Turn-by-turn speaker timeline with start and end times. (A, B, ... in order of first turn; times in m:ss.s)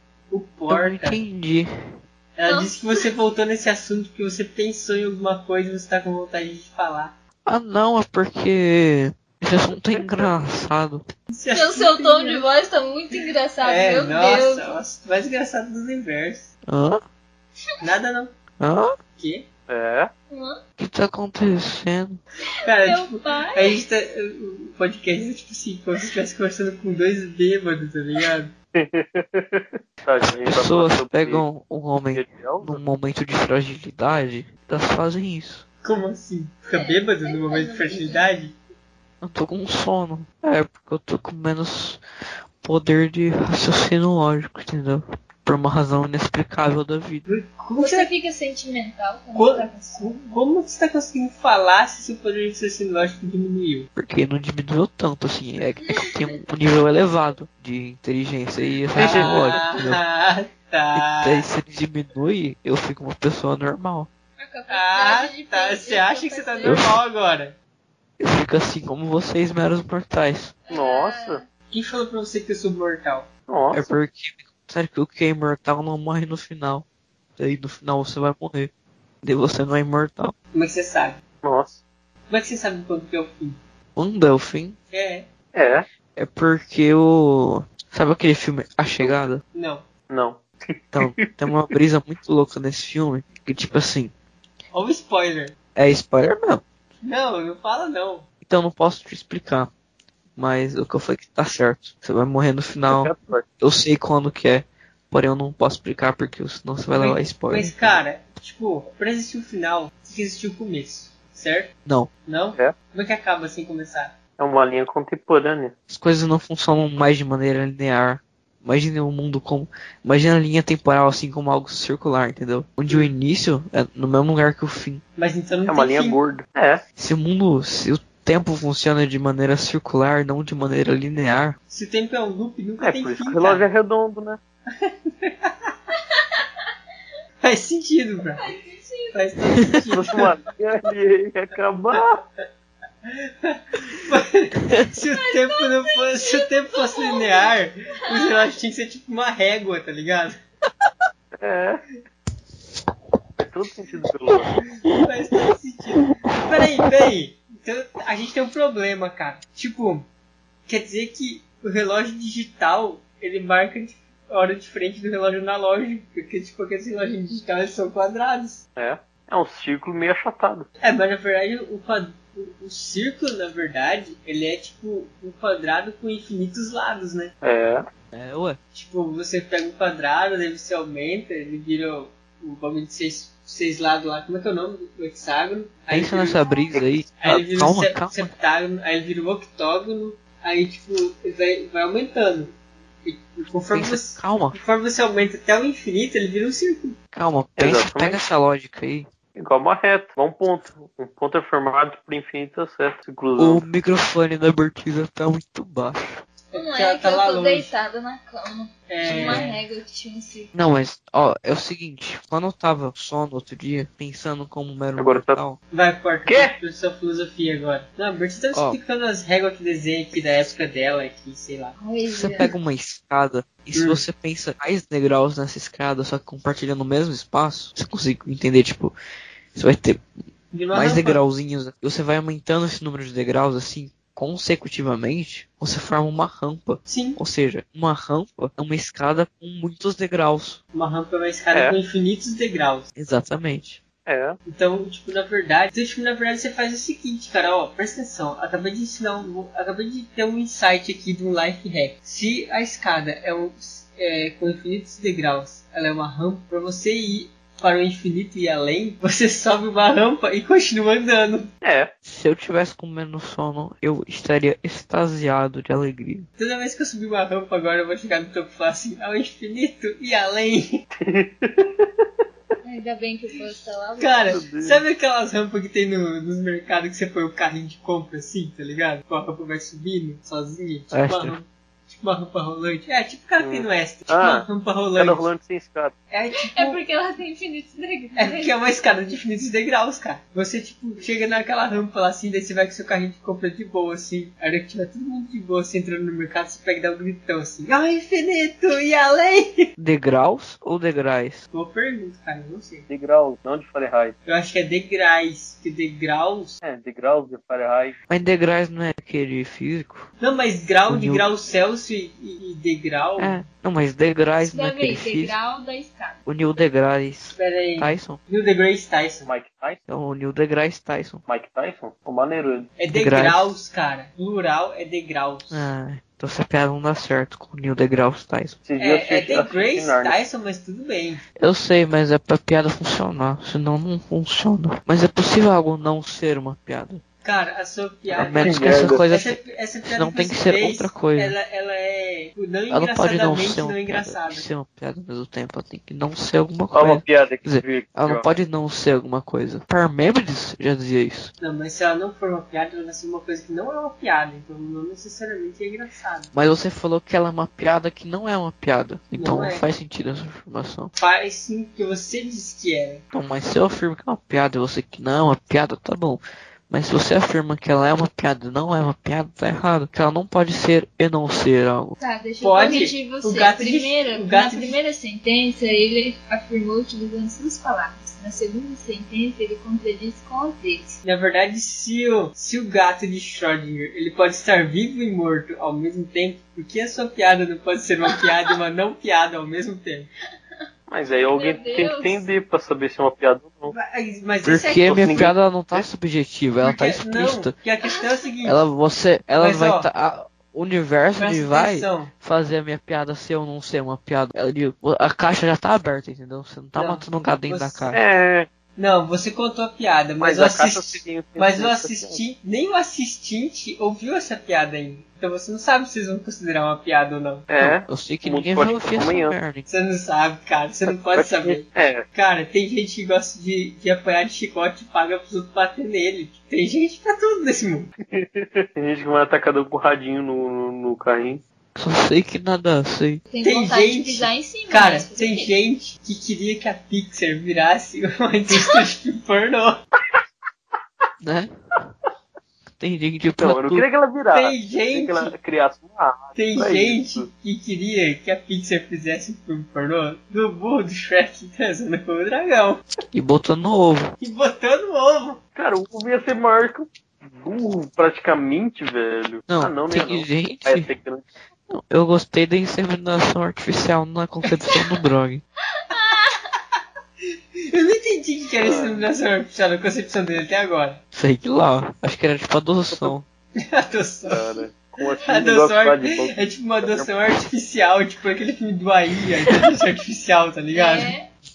0:00.3-0:01.2 A
0:00.7-0:01.7 B
0:02.4-0:07.1 A
0:02.4-0:03.0 C
0:07.5-0:11.0 B
0:09.7-0:10.3 D
0:11.3-0:12.4 A
0:11.5-0:14.7 C
0:13.6-0:16.5 A
0:16.7-0:17.0 B
0:17.8-0:18.3 A
0:18.6-0:18.9 B
0:19.2-0:19.5 A
0:19.7-0:20.1 D
0:20.3-0:20.6 C
0:20.8-0:22.2 B
0:22.6-0:28.5 A
0:22.8-0:23.8 C
0:28.8-0:31.4 D
0:30.4-0:35.6 B
0:32.1-0:32.8 D
0:35.8-0:38.6 A
0:36.7-0:38.3 C
0:39.2-0:42.0 B
0:42.6-0:47.3 B
0:47.3-0:48.1 A
0:47.8-0:50.1 C
0:49.4-0:53.9 A
0:54.0-1:00.0 B
0:55.8-0:56.1 C
0:59.0-0:59.5 D
0:59.0-1:01.4 A
1:00.9-1:04.1 B
1:04.4-1:06.8 C
1:04.7-1:07.6 A
1:06.6-1:07.0 B
1:08.2-1:10.5 B
1:10.7-1:11.4 C
1:10.7-1:11.4 D
1:11.7-1:13.3 A
1:13.5-1:13.9 D
1:13.7-1:16.9 B
1:17.4-1:18.7 B
1:19.2-1:20.3 B
1:20.5-1:21.2 A
1:21.4-1:21.8 D
1:22.3-1:23.6 A
1:24.0-1:24.8 B
1:24.9-1:25.3 A
1:25.5-1:25.8 D
1:26.2-1:29.4 B
1:29.5-1:29.8 A
1:30.1-1:31.2 D
1:30.9-1:34.1 B
1:34.7-1:35.6 A
1:35.8-1:36.6 B
1:37.0-1:38.3 A
1:38.4-1:39.7 B
1:40.4-1:48.0 B
1:42.9-1:43.4 D
1:47.0-1:51.7 A
1:52.3-1:54.1 A
1:54.4-1:55.7 D
1:55.9-2:05.0 B
2:05.2-2:06.2 A
2:05.7-2:06.8 D
2:07.0-2:11.6 B
2:11.7-2:13.7 A
2:12.8-2:14.4 D
2:14.8-2:15.7 A
2:17.4-2:18.4 A
2:18.4-2:19.6 C
2:19.1-2:20.2 A
2:19.9-2:22.1 D
2:23.1-2:30.4 A
2:25.1-2:27.6 C
2:31.4-2:31.8 D
2:33.4-2:34.5 D
2:35.0-2:40.1 A
2:40.7-2:48.6 A
2:48.8-2:50.7 D
2:50.8-2:57.3 A
2:57.4-2:57.8 D
2:58.1-2:58.6 B
2:58.7-3:06.5 A
3:05.9-3:08.3 B
3:07.2-3:12.5 A
3:13.0-3:17.0 A
3:13.7-3:14.6 B
3:17.1-3:19.1 B
3:17.6-3:18.2 D
3:19.4-3:23.6 D
3:23.4-3:26.1 B
3:26.5-3:27.7 A
3:26.6-3:30.5 C
3:28.9-3:29.6 A
3:29.0-3:29.6 B
3:30.5-3:35.6 B
3:35.0-3:35.4 D
3:35.7-3:41.8 A
3:36.3-3:36.6 D
3:38.5-3:38.8 B
3:41.8-3:42.5 C
3:42.1-3:48.9 B
3:43.8-3:44.1 A
3:49.5-3:50.0 B
3:50.5-3:51.2 A
3:50.7-4:00.6 B
3:56.9-3:57.2 A
4:00.7-4:02.9 A
4:01.5-4:01.8 D
4:03.0-4:03.8 B
4:04.1-4:04.4 D
4:04.5-4:21.5 A
4:21.6-4:21.9 D
4:22.0-4:26.3 B
4:26.4-4:30.8 A
4:31.0-4:31.5 D
4:32.6-4:34.4 C
4:34.0-4:41.5 A
4:34.3-4:34.8 D
4:40.9-4:41.4 B
4:42.0-4:45.3 A
4:43.4-4:44.4 D
4:45.0-4:45.9 D
4:46.1-4:46.8 A
4:46.4-4:48.5 C
4:48.2-4:59.7 A
4:59.8-5:01.4 B
5:01.5-5:02.9 A
5:02.9-5:04.2 D
5:04.3-5:06.6 A
5:06.6-5:08.0 D
5:08.1-5:10.1 B
5:10.2-5:13.4 A
5:10.9-5:11.3 B
5:13.2-5:15.3 B
5:14.4-5:16.2 C
5:16.3-5:18.2 B
5:17.4-5:19.3 A
5:19.2-5:19.8 D
5:19.9-5:21.2 B
5:21.3-5:22.7 D
5:22.8-5:25.7 A
5:22.9-5:23.5 B
5:25.5-5:28.6 B
5:28.6-5:30.2 D
5:28.8-5:31.2 A
5:31.4-5:37.0 B
5:37.2-5:44.5 A
5:38.1-5:41.4 B
5:38.4-5:39.0 D
5:42.7-5:51.3 B
5:46.7-5:48.3 D
5:51.4-5:56.3 A
5:56.3-6:00.9 B
5:59.1-5:59.6 A
6:01.0-6:03.0 A
6:03.1-6:12.0 B
6:12.0-6:21.0 C
6:12.4-6:14.8 A
6:21.0-6:30.1 A
6:30.9-6:33.7 D
6:31.2-6:32.3 C
6:33.7-6:35.3 A
6:34.4-6:37.6 B
6:34.8-6:35.9 D
6:36.6-6:38.7 A
6:38.4-6:48.0 B
6:39.4-6:39.9 A
6:41.2-6:42.1 A
6:46.8-6:47.9 A
6:47.9-6:48.5 D
6:48.8-6:57.5 A
6:50.2-6:52.2 D
6:57.5-6:59.4 D
6:57.6-6:59.7 B
6:59.7-7:07.9 A
7:01.1-7:02.0 D
7:08.1-7:11.4 D
7:11.8-7:13.2 B
7:13.3-7:15.5 C
7:13.4-7:19.8 A
7:21.2-7:21.5 B
7:22.8-7:23.9 B
7:23.4-7:27.3 D
7:24.3-7:25.3 A
7:26.4-7:32.8 A
7:33.1-7:34.1 B
7:34.2-7:35.4 A
7:35.6-7:41.3 D
7:39.5-7:40.9 B
7:41.7-7:45.4 B
7:45.8-7:46.4 C
7:47.7-7:51.0 A
7:48.6-7:49.1 D
7:51.1-7:53.2 B
7:53.7-7:54.4 A
7:54.3-7:57.1 D
7:55.2-8:01.1 A
8:00.7-8:01.3 C